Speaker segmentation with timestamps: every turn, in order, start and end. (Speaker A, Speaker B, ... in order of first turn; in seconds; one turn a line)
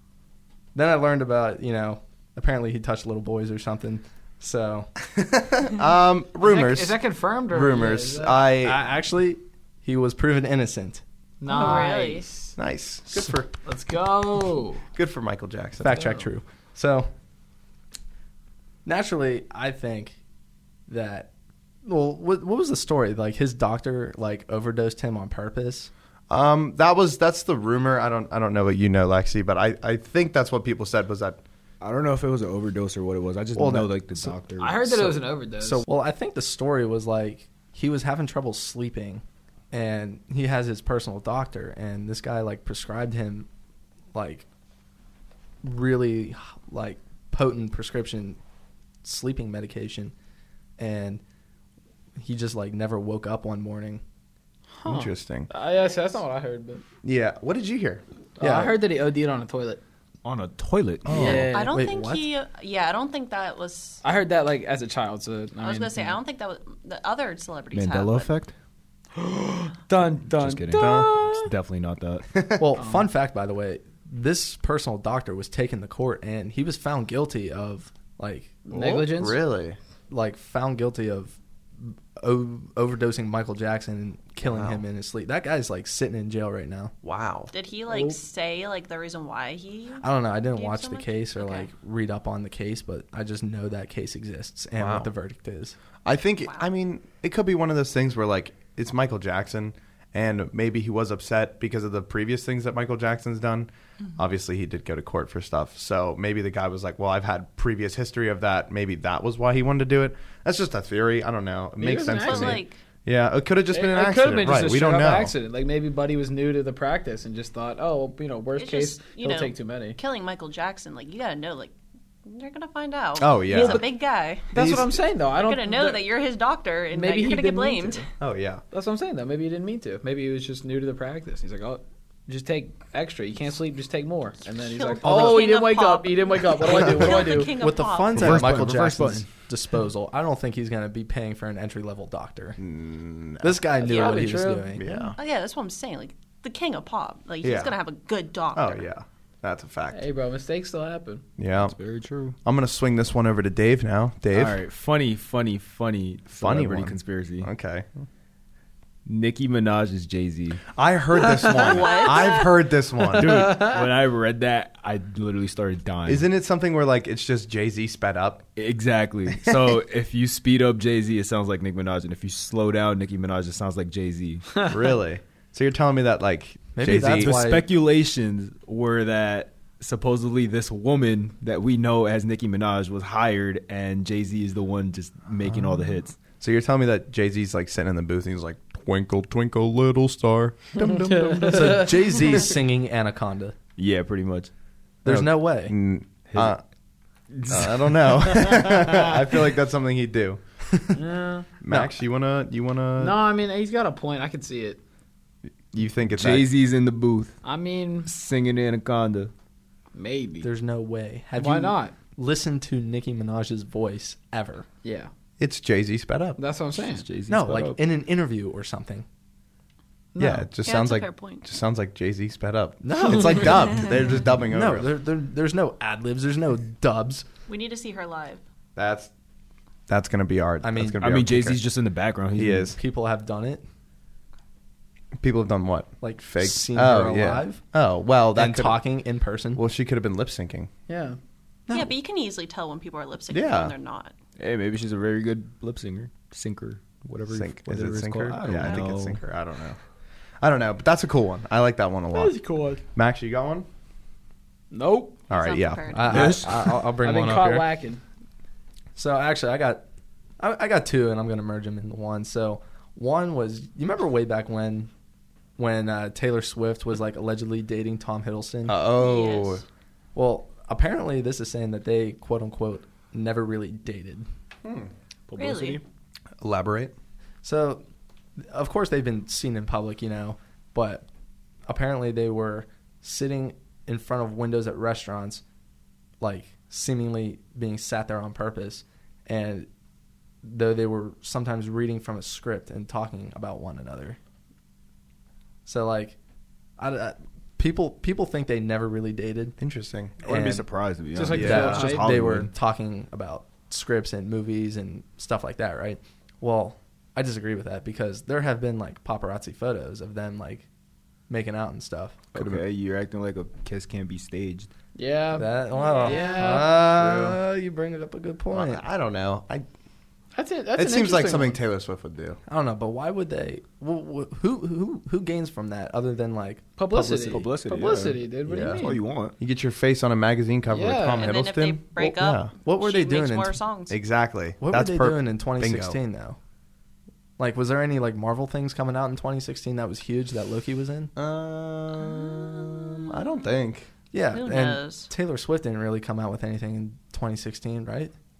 Speaker A: 0.8-4.9
Speaker B: 5.2-7.0
Speaker C: 6.4-8.4
Speaker B: 7.5-8.8
Speaker A: 8.6-11.0
Speaker C: 11.4-12.5
Speaker D: 11.5-12.5
Speaker B: 12.6-13.5
Speaker C: 13.7-14.8
Speaker B: 14.9-15.9
Speaker A: 15.8-17.1
Speaker C: 15.9-16.2
Speaker A: 18.9-20.2
Speaker A: 20.9-21.3
Speaker A: 21.9-25.9
Speaker B: 26.3-31.4
Speaker E: 31.8-34.9
Speaker A: 33.6-43.5
Speaker C: 34.6-35.8
Speaker A: 44.1-44.5
Speaker A: 45.6-48.4
Speaker A: 49.0-50.1
Speaker A: 50.8-51.2
Speaker A: 52.2-54.0
Speaker C: 54.8-56.8
Speaker B: 54.9-55.5
Speaker B: 57.0-58.0
Speaker C: 58.4-59.8
Speaker A: 58.4-58.7
Speaker E: 60.2-61.4
Speaker B: 61.1-61.5
Speaker C: 61.1-61.8
Speaker D: 61.2-64.0
Speaker A: 61.2-62.3
Speaker C: 64.0-66.2
Speaker D: 65.6-68.3
Speaker E: 67.7-68.5
Speaker C: 69.2-71.5
Speaker E: 70.3-72.6
Speaker B: 70.7-71.2
Speaker A: 72.6-78.6
Speaker C: 72.8-73.1
Speaker C: 78.7-79.4
Speaker B: 78.7-79.8
Speaker A: 80.1-86.9
Speaker B: 84.4-84.8
Speaker B: 87.0-87.5
Speaker D: 87.5-91.7
Speaker C: 87.9-88.2
Speaker A: 90.0-95.8
Speaker B: 94.8-95.1
Speaker B: 96.0-115.3
Speaker C: 111.8-112.6
Speaker D: 112.1-112.8
Speaker C: 113.7-120.0
Speaker D: 118.6-121.7
Speaker D: 122.3-124.5
Speaker B: 123.2-123.9
Speaker C: 123.5-123.8
Speaker C: 124.5-126.0
Speaker B: 124.5-125.0
Speaker D: 125.3-128.1
Speaker C: 126.9-128.1
Speaker B: 128.2-128.6
Speaker C: 128.7-137.5
Speaker D: 134.6-138.6
Speaker A: 136.7-142.6
Speaker E: 138.2-139.3
Speaker B: 142.6-143.6
Speaker A: 143.4-144.8
Speaker C: 143.8-144.8
Speaker B: 144.8-145.2
Speaker D: 144.9-148.9
Speaker B: 147.4-147.8
Speaker B: 148.5-150.0
Speaker C: 149.9-151.2
Speaker B: 151.4-151.8
Speaker E: 151.6-152.4
Speaker B: 152.4-154.6
Speaker E: 154.3-157.5
Speaker B: 156.4-157.9
Speaker E: 159.1-160.6
Speaker B: 160.8-163.8
Speaker C: 161.2-162.4
Speaker D: 161.5-162.5
Speaker C: 163.1-163.8
Speaker E: 163.2-166.3
Speaker B: 166.1-168.5
Speaker E: 168.6-174.5
Speaker B: 169.4-169.8
Speaker B: 174.7-177.4
Speaker A: 176.8-177.7
Speaker E: 176.9-186.2
Speaker B: 186.4-190.8
Speaker E: 190.8-192.3
Speaker C: 190.8-191.9
Speaker A: 191.4-193.6
Speaker E: 193.8-194.5
Speaker A: 195.0-195.7
Speaker B: 195.1-196.6
Speaker E: 196.3-196.6
Speaker E: 197.3-199.3
Speaker B: 197.5-200.4
Speaker C: 200.9-201.5
Speaker B: 201.6-203.2
Speaker A: 201.7-201.9
Speaker C: 203.0-204.8
Speaker B: 205.7-206.5
Speaker E: 206.1-207.3
Speaker C: 207.4-208.1
Speaker E: 208.0-209.3
Speaker C: 209.9-210.5
Speaker A: 210.4-214.7
Speaker C: 211.4-211.9
Speaker C: 214.8-215.1
Speaker B: 215.4-216.4
Speaker C: 216.4-217.1
Speaker E: 216.8-217.8
Speaker A: 217.3-219.1
Speaker C: 220.1-220.5
Speaker B: 220.2-224.9
Speaker D: 220.6-221.4
Speaker A: 222.8-223.9
Speaker A: 224.5-227.3
Speaker D: 227.5-228.4
Speaker B: 228.8-229.1
Speaker B: 229.9-231.6
Speaker A: 230.6-231.0
Speaker E: 231.0-232.8
Speaker B: 232.4-232.8
Speaker A: 232.7-233.6
Speaker B: 235.2-238.8
Speaker A: 236.0-237.6
Speaker A: 238.3-239.6
Speaker B: 239.6-240.7
Speaker C: 240.9-241.2
Speaker D: 241.7-244.1
Speaker B: 243.3-243.7
Speaker E: 244.4-249.2
Speaker B: 247.3-249.8
Speaker B: 250.4-252.4
Speaker C: 252.1-252.8
Speaker B: 252.9-253.7
Speaker C: 254.7-255.2
Speaker D: 255.3-256.4
Speaker B: 255.3-256.4
Speaker A: 255.9-257.7
Speaker E: 256.1-256.5
Speaker C: 256.8-258.0
Speaker A: 259.0-259.8
Speaker A: 260.4-264.9
Speaker A: 265.6-268.8
Speaker B: 268.7-269.6
Speaker D: 269.0-269.6
Speaker A: 270.1-274.3
Speaker B: 274.6-274.9
Speaker E: 275.3-275.8
Speaker D: 275.4-275.8
Speaker B: 276.4-276.9
Speaker A: 277.4-277.8
Speaker A: 278.5-281.1
Speaker A: 281.7-285.4
Speaker A: 286.2-289.7
Speaker A: 290.4-294.2
Speaker A: 295.7-296.2
Speaker A: 296.8-299.6
Speaker B: 299.6-300.2
Speaker A: 300.2-300.7
Speaker E: 300.2-302.5
Speaker C: 301.1-302.1
Speaker A: 301.4-310.7
Speaker B: 301.4-301.8
Speaker A: 311.3-312.2
Speaker E: 312.3-314.7
Speaker B: 312.4-312.6
Speaker C: 314.9-315.5
Speaker A: 315.3-318.8
Speaker D: 315.7-316.4
Speaker C: 316.1-316.8
Speaker B: 316.5-317.4
Speaker B: 318.5-319.7
Speaker C: 320.4-321.6
Speaker B: 320.8-322.4
Speaker A: 322.5-327.5
Speaker C: 326.8-329.0
Speaker E: 327.3-329.4
Speaker B: 328.5-332.5
Speaker C: 330.7-331.3
Speaker D: 331.2-333.9
Speaker A: 332.0-333.6
Speaker B: 333.9-336.0
Speaker A: 334.6-336.4
Speaker A: 337.4-341.1
Speaker B: 341.2-343.9
Speaker D: 342.0-343.2
Speaker A: 344.1-348.1
Speaker D: 344.3-345.1